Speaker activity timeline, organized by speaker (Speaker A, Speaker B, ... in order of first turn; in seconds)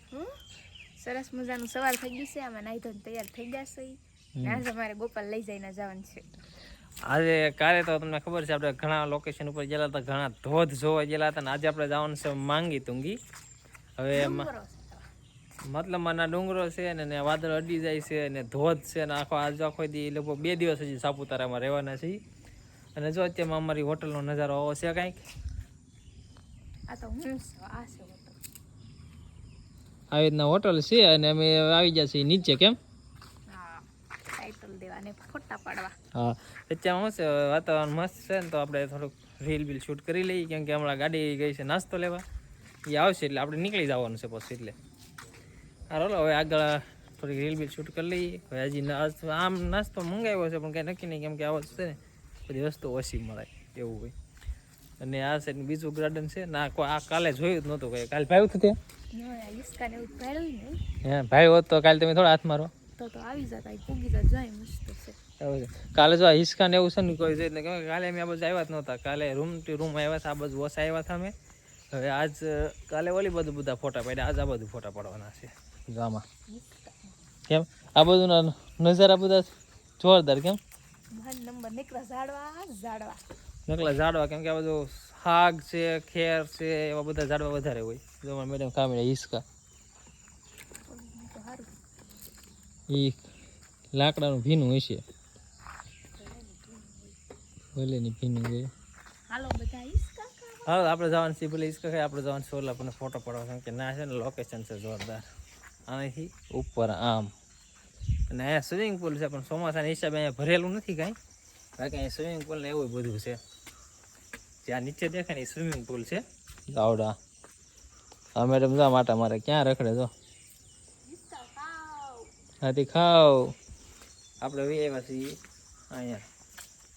Speaker A: 0.1-0.4, 1.0-6.3, 14.1-15.0, 26.9-28.4, 33.5-36.0, 59.1-60.8, 63.0-65.2, 76.5-77.1, 81.1-83.2, 90.9-91.7, 96.2-97.2, 99.3-100.9, 121.1-122.3
Speaker B: 4.4-4.6, 7.1-13.2, 14.0-14.5, 15.7-22.2, 23.0-25.2, 30.1-32.8, 36.1-42.2, 42.9-44.7, 45.9-54.1, 55.0-58.8, 61.0-62.7, 65.4-71.3, 71.9-76.2, 77.5-80.6, 83.7-89.4, 92.9-93.2, 93.9-95.0, 97.8-98.7, 100.7-105.3, 105.9-107.3, 108.3-111.2, 111.8-113.4, 114.7-117.2, 118.4-120.1, 122.6-123.5, 124.4-125.4, 125.9-126.2